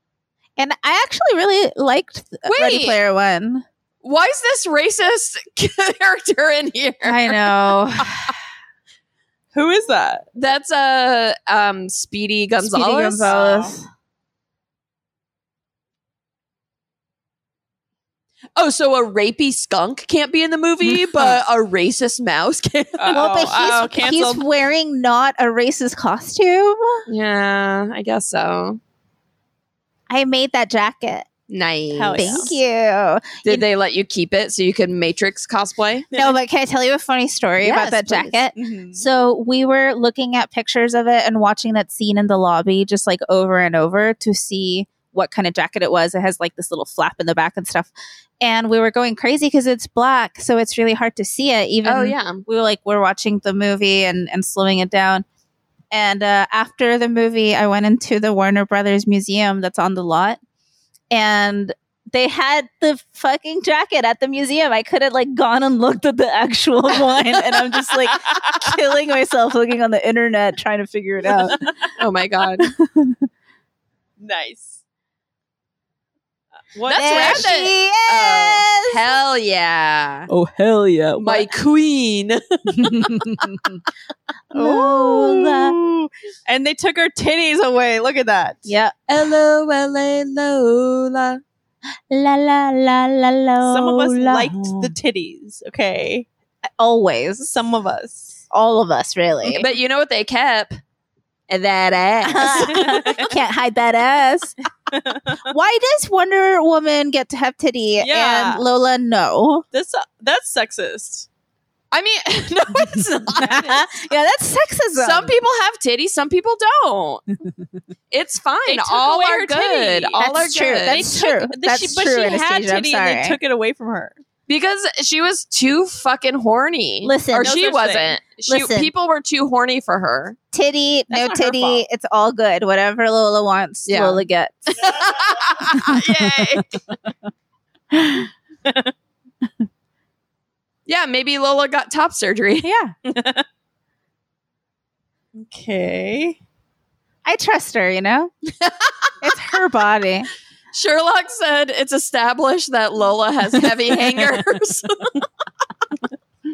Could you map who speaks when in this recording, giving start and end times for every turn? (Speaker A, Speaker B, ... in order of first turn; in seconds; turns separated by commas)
Speaker A: 0.6-3.6, Speaker B: 2.5-3.0, Speaker B: 4.0-7.4, Speaker A: 7.1-8.3, Speaker C: 9.5-10.3, Speaker B: 10.3-13.3, Speaker A: 12.6-13.9, Speaker C: 13.2-13.7, Speaker B: 18.6-23.2, Speaker C: 23.0-24.5, Speaker A: 23.1-27.0, Speaker B: 27.1-28.8, Speaker A: 30.1-31.3, Speaker B: 31.5-32.5, Speaker C: 31.9-32.6, Speaker A: 32.2-33.7, Speaker B: 33.5-36.1, Speaker A: 36.1-55.2, Speaker B: 37.6-38.4, Speaker C: 38.5-39.0, Speaker B: 51.8-52.4, Speaker A: 55.9-60.4, Speaker A: 61.1-71.6, Speaker B: 72.0-72.7, Speaker A: 72.6-73.2, Speaker C: 74.2-74.8, Speaker C: 76.8-77.5, Speaker B: 76.8-80.3, Speaker A: 76.9-79.1, Speaker A: 80.3-81.5, Speaker B: 81.2-83.5, Speaker A: 82.8-83.8, Speaker A: 84.5-85.8, Speaker C: 84.5-88.7, Speaker A: 88.7-89.0, Speaker B: 89.1-91.4, Speaker A: 92.1-94.9, Speaker C: 93.7-96.3, Speaker A: 96.8-97.6, Speaker C: 97.5-98.4, Speaker A: 98.5-99.7, Speaker B: 99.5-100.8, Speaker B: 101.5-103.2, Speaker A: 102.2-104.6, Speaker C: 102.5-103.3, Speaker C: 104.9-105.4, Speaker A: 105.5-109.7, Speaker C: 108.0-108.6, Speaker C: 109.7-111.3, Speaker B: 111.9-113.8, Speaker A: 113.4-115.3, Speaker B: 115.0-117.2, Speaker B: 118.1-121.0, Speaker C: 118.7-120.2, Speaker A: 120.2-123.4, Speaker C: 120.8-124.2, Speaker B: 124.5-130.4, Speaker A: 127.0-127.5, Speaker C: 127.4-128.2, Speaker A: 128.5-128.9, Speaker A: 130.5-135.1, Speaker C: 131.1-131.8, Speaker B: 133.9-134.2, Speaker B: 134.8-135.8, Speaker A: 135.7-136.6, Speaker C: 135.8-136.7, Speaker A: 137.9-138.3, Speaker C: 138.7-138.9, Speaker B: 140.9-142.7, Speaker A: 142.6-142.9, Speaker C: 143.1-143.4, Speaker C: 145.3-146.4, Speaker A: 147.2-148.3, Speaker B: 148.5-149.1, Speaker A: 149.2-150.3, Speaker B: 150.7-155.2